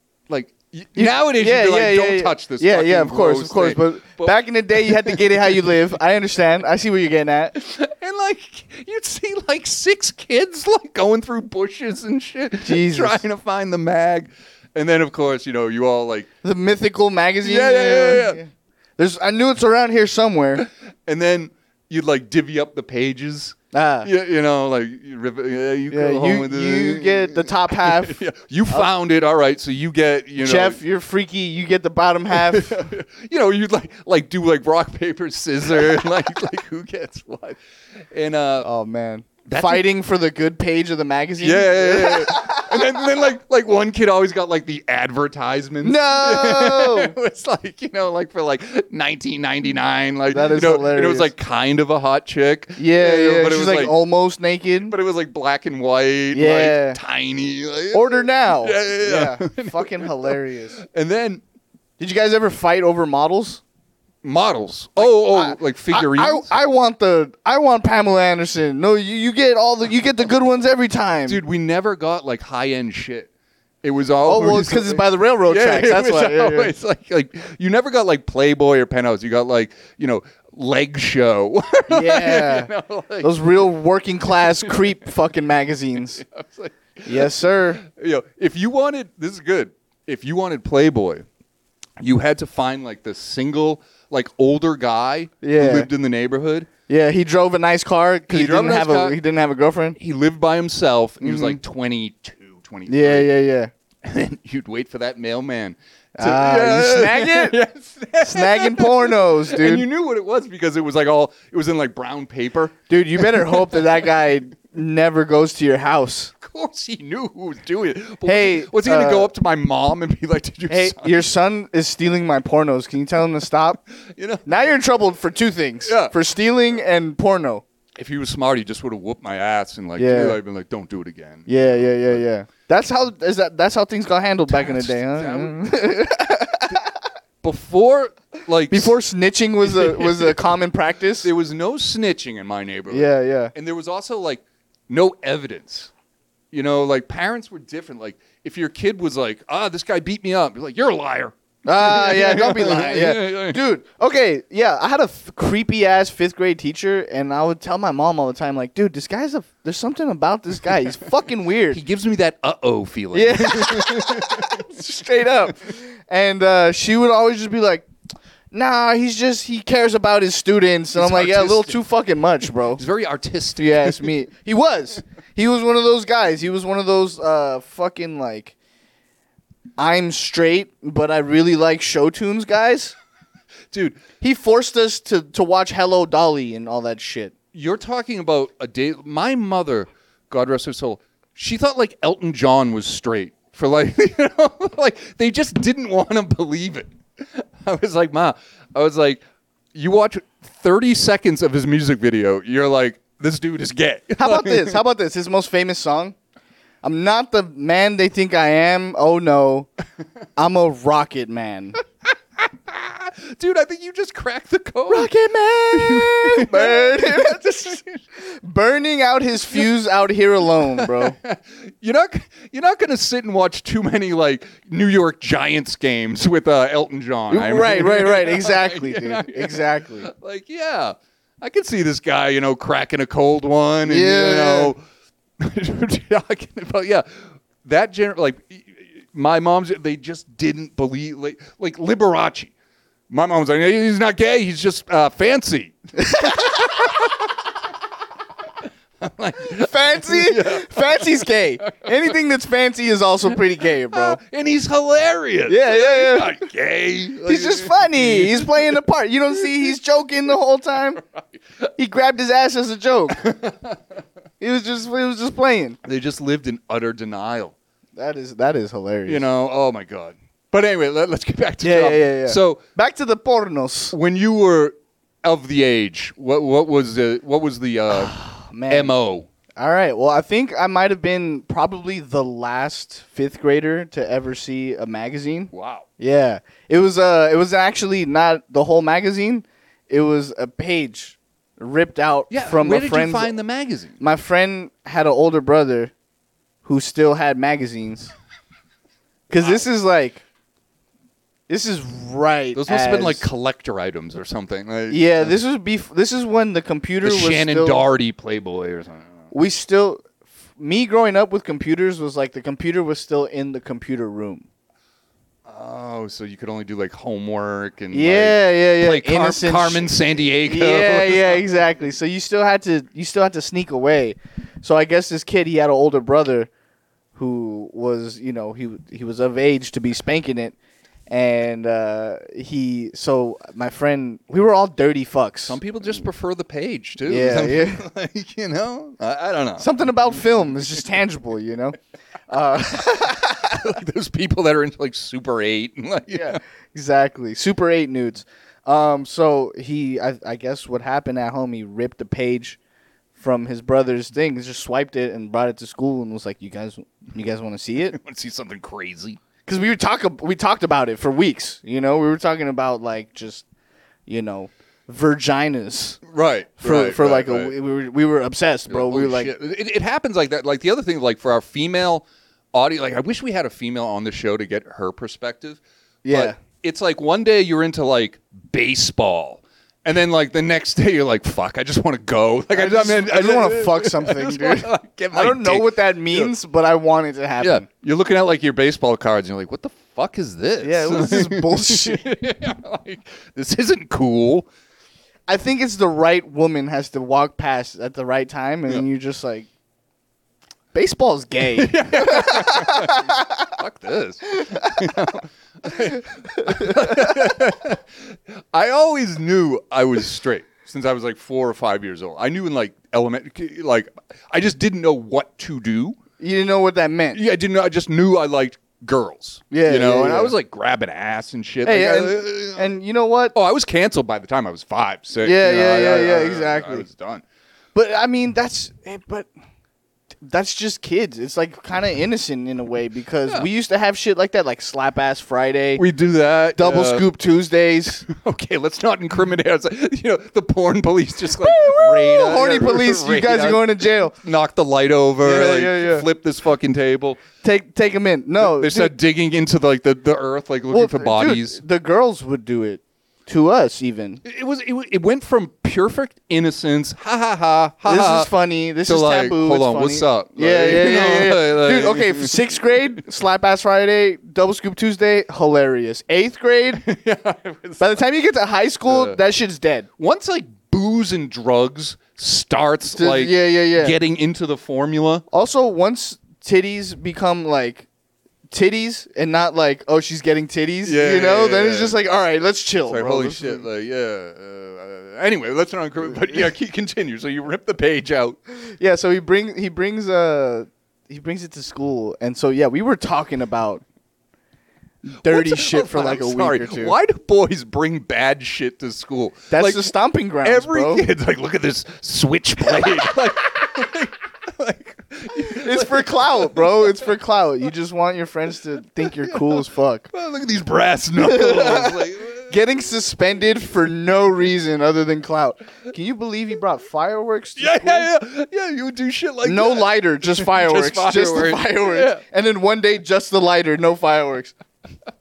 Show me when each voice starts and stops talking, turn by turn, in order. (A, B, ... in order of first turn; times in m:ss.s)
0:00.3-0:05.8 A
0:00.9-0:07.6 B
0:07.5-0:16.3 A
0:12.6-0:13.2 B
0:16.4-0:20.7 B
0:17.4-0:18.4 A
0:20.6-0:30.8 A
0:23.7-0:24.1 B
0:25.9-0:28.9 B
0:30.4-0:32.8 B
0:32.3-0:37.6 A
0:38.1-0:38.7 A
0:38.6-0:43.0 B
0:39.4-0:39.8 A
0:41.4-0:53.9 A
0:45.8-0:47.1 B
0:50.3-0:51.3 B
0:52.8-0:54.9 B
0:54.9-1:01.4 A
0:56.3-0:57.0 B
0:57.9-1:00.8 B
1:02.0-1:03.6 B
1:04.2-1:06.5 A
1:05.0-1:11.4 B
1:11.3-1:13.3 A
1:13.8-1:23.4 A
1:14.2-1:16.7 B
1:21.9-1:22.7 B
1:23.2-1:26.2 B
1:24.3-1:25.1 A
1:26.0-1:31.2 A
1:27.0-1:27.8 B
1:32.0-1:36.7 A
1:35.4-1:35.9 B
1:36.9-1:40.0 B
1:38.3-1:39.2 A
1:40.0-1:43.3 A
1:41.2-1:41.6 B
1:42.9-1:43.7 B
1:44.0-1:54.0 A
1:46.2-1:47.6 B
1:48.2-1:49.9 B
1:52.9-1:56.3 B
1:56.4-2:01.2 A
1:58.2-1:59.3 B
2:00.7-2:03.8 B
2:04.0-2:04.5 A
2:04.4-2:07.6 B
2:05.8-2:06.1 A
2:08.0-2:12.2 A
2:10.0-2:10.4 B
2:11.5-2:16.9 B
2:14.5-2:15.6 A
2:17.4-2:18.9 A
2:18.7-2:21.3 B
2:19.6-2:20.5 A
2:21.2-2:25.9 A
2:22.9-2:23.5 B
2:26.5-2:33.6 A
2:31.6-2:41.8 B
2:41.7-2:44.6 A
2:43.1-2:47.9 B
2:48.5-2:52.8 B
2:50.9-2:51.8 A
2:52.7-2:54.1 A
2:53.6-2:58.5 B
2:59.8-3:02.9 B
3:03.7-3:04.0 A
3:04.2-3:07.3 B
3:07.5-3:19.2 A
3:19.7-3:24.8 A
3:24.2-3:26.2 B
3:26.8-3:29.7 B
3:30.4-3:31.8 B
3:32.4-3:35.1 A
3:34.9-3:41.2 B
3:35.7-3:38.0 A
3:40.7-3:54.8 A
3:47.3-3:50.1 B
3:53.8-3:54.7 B
3:55.4-4:02.5 A
4:03.1-4:07.3 A
4:06.0-4:06.7 B
4:09.0-4:12.0 A
4:09.4-4:14.2 B
4:13.9-4:18.8 A
4:15.5-4:16.5 B
4:17.2-4:21.0 B
4:19.4-4:19.7 A
4:21.8-4:23.3 B
4:23.1-4:23.8 A
4:24.4-4:25.8 B
4:25.8-4:27.6 A
4:28.0-4:29.2 B
4:29.1-4:32.6 A
4:31.6-4:33.9 B
4:33.9-4:38.1 A
4:37.9-4:38.9 B
4:38.7-4:39.3 A
4:39.6-4:53.3 B
4:45.5-4:45.9 A
4:52.3-4:54.0 A
4:54.0-4:55.9 B
4:56.6-4:58.1 B
4:59.3-5:00.2 B
5:01.5-5:03.3 B
5:02.5-5:05.3 A
5:04.9-5:07.9 B
5:07.0-5:09.3 A
5:09.3-5:10.0 B
5:10.6-5:14.5 B
5:15.4-5:21.4 A
5:17.9-5:26.5 B
5:27.1-5:30.6 B
5:31.1-5:35.6 B
5:35.5-5:39.7 A
5:37.0-5:37.8 B
5:39.6-5:41.8 B
5:42.3-5:43.6 B
5:43.4-5:46.4 A
5:46.1-5:52.6 B
5:53.2-5:58.0 B
5:57.9-5:59.2 A
5:59.4-6:03.4 B
6:04.1-6:06.0 B
6:06.0-6:07.5 A
6:06.6-6:09.3 B
6:08.7-6:26.3 A
6:16.0-6:16.4 B
6:22.5-6:27.7 B
6:27.4-6:34.5 A
6:30.6-6:32.1 B
6:35.3-6:39.5 B
6:40.7-6:43.4 B
6:41.5-6:56.0 A
6:44.4-6:44.8 B
6:46.0-6:47.2 B
6:56.2-6:57.2 B
6:57.1-7:02.7 A
6:59.5-7:00.3 B
7:01.6-7:03.3 B
7:03.3-7:07.2 A
7:05.2-7:06.8 B
7:07.7-7:09.3 B
7:10.2-7:15.8 B
7:15.8-7:17.0 A
7:16.6-7:18.0 B
7:18.0-7:27.2 A
7:21.3-7:24.1 B
7:25.2-7:26.0 B
7:27.4-7:28.9 B
7:28.4-7:31.6 A
7:30.7-7:34.2 B
7:34.2-7:38.3 A
7:37.8-7:46.8 B
7:38.8-7:42.5 A
7:46.8-7:48.0 A
7:47.8-7:49.9 B
7:48.9-7:49.2 A
7:50.0-7:55.2 A
7:52.9-7:54.0 B
7:55.3-7:57.9 B
7:58.5-8:03.7 B
8:00.8-8:02.0 A
8:02.8-8:08.4 A
8:08.7-8:13.8 B
8:15.0-8:17.0 B
8:15.2-8:26.9 A
8:19.5-8:21.0 B
8:25.4-8:30.1 B
8:29.1-8:32.6 A
8:31.2-8:38.1 B
8:37.6-8:42.2 A
8:39.4-8:44.5 B